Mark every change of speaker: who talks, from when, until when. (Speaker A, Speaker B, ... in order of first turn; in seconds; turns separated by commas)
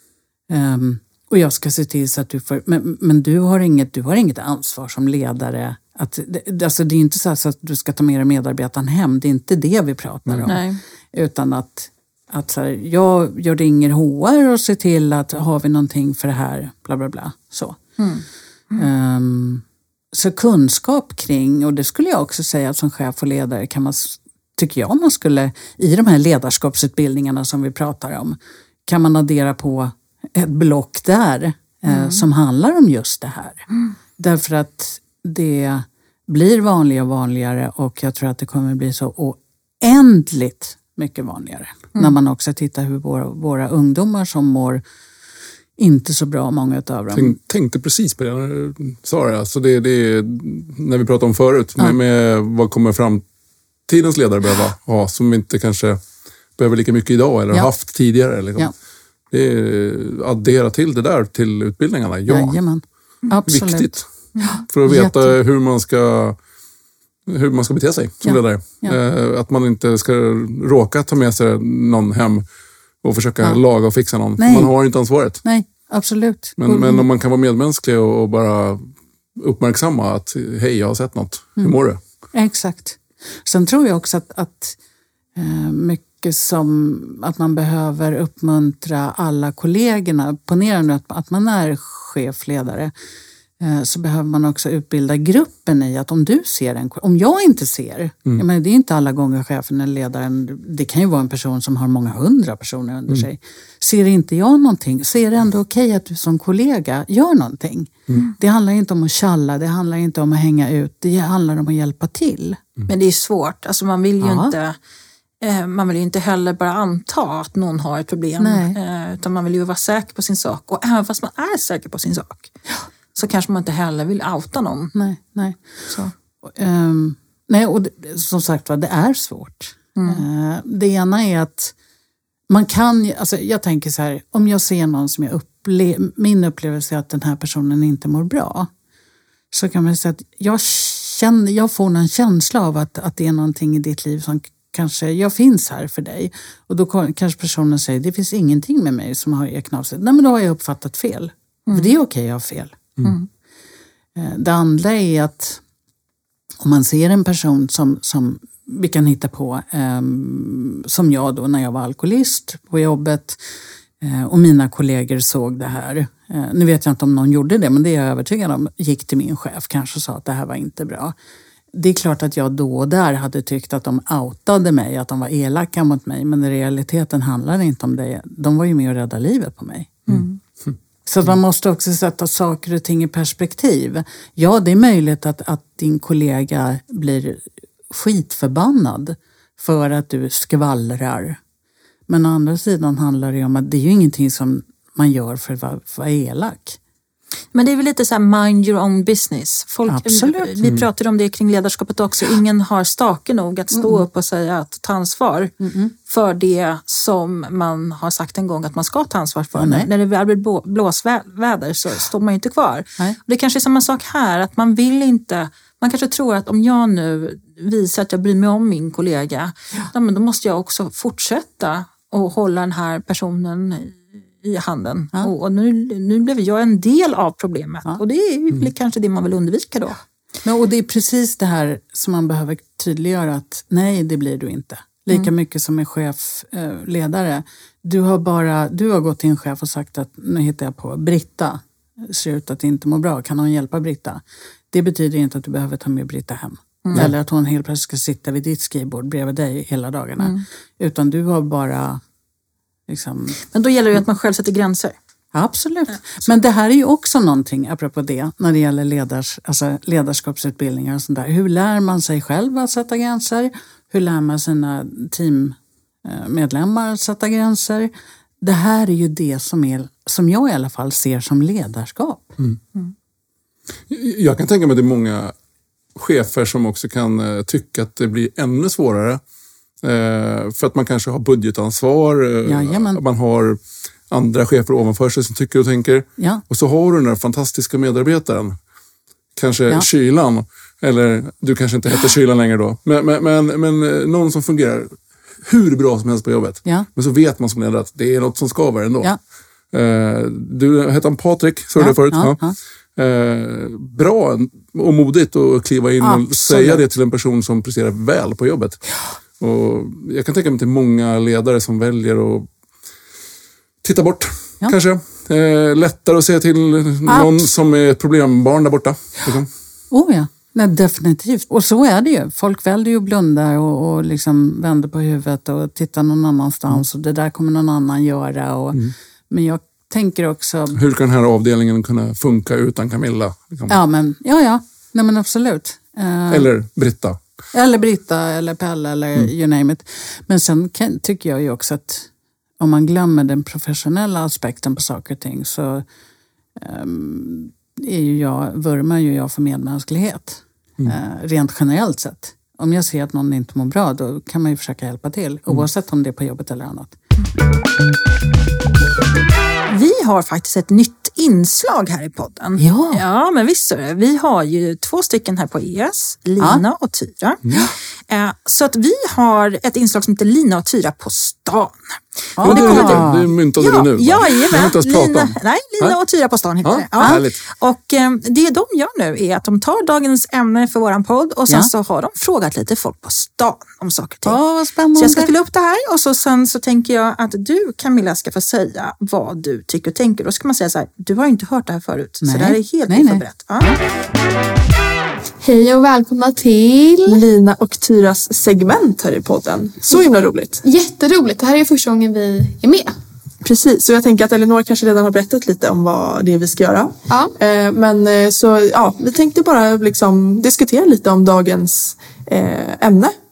Speaker A: 0.5-17.8, Speaker B: 10.5-10.8, Speaker B: 18.0-18.8, Speaker A: 18.8-33.6, Speaker B: 31.9-32.2, Speaker A: 34.2-44.8, Speaker A: 45.8-47.4, Speaker C: 47.1-53.2, Speaker C: 53.9-56.0, Speaker C: 56.5-58.7, Speaker C: 59.3-62.6, Speaker A: 62.3-65.3, Speaker C: 63.5-64.1, Speaker C: 64.7-66.4, Speaker C: 67.3-72.5, Speaker A: 68.2-69.0, Speaker C: 73.0-75.4, Speaker A: 74.4-77.1, Speaker C: 76.6-82.0, Speaker A: 82.3-84.8, Speaker A: 85.3-92.9, Speaker A: 93.6-112.6, Speaker B: 112.9-114.8, Speaker A: 114.2-114.5, Speaker B: 115.4-122.5, Speaker A: 118.4-118.8, Speaker B: 123.1-124.9, Speaker A: 124.9-125.9, Speaker A: 126.4-131.7, Speaker B: 129.9-130.2, Speaker A: 132.5-138.7, Speaker A: 139.5-152.9, Speaker A: 154.2-155.6, Speaker A: 156.6-163.4, Speaker A: 164.0-171.1, Speaker A: 171.7-180.1, Speaker B: 180.1-180.4, Speaker A: 181.1-191.4, Speaker A: 192.1-196.8, Speaker B: 197.5-205.5, Speaker A: 199.9-200.5, Speaker A: 203.7-204.0, Speaker A: 205.6-205.9, Speaker B: 206.1-230.0, Speaker A: 209.6-209.9, Speaker A: 230.4-252.0, Speaker B: 250.2-250.4, Speaker A: 252.9-253.4, Speaker B: 253.5-254.9, Speaker A: 255.3-272.4, Speaker C: 273.9-275.3, Speaker C: 275.9-279.2, Speaker C: 279.8-288.6, Speaker A: 282.4-283.0, Speaker A: 286.2-286.4, Speaker C: 289.4-299.1, Speaker C: 299.7-302.4, Speaker A: 301.8-302.6, Speaker C: 302.9-312.5, Speaker A: 306.0-306.8, Speaker C: 313.8-319.5, Speaker A: 317.1-317.5, Speaker A: 319.9-330.8, Speaker C: 330.8-333.8, Speaker A: 333.7-336.5, Speaker C: 336.3-337.2, Speaker A: 337.5-345.8, Speaker A: 346.6-357.0, Speaker B: 359.7-367.4, Speaker A: 362.6-363.0, Speaker B: 368.1-384.4, Speaker A: 372.4-373.3, Speaker C: 372.4-375.9, Speaker C: 376.6-377.4, Speaker A: 377.0-377.3, Speaker A: 384.2-385.3, Speaker B: 384.9-393.7, Speaker A: 392.2-393.8, Speaker D: 395.4-397.2, Speaker E: 397.1-400.6, Speaker D: 400.6-402.9, Speaker E: 403.4-413.1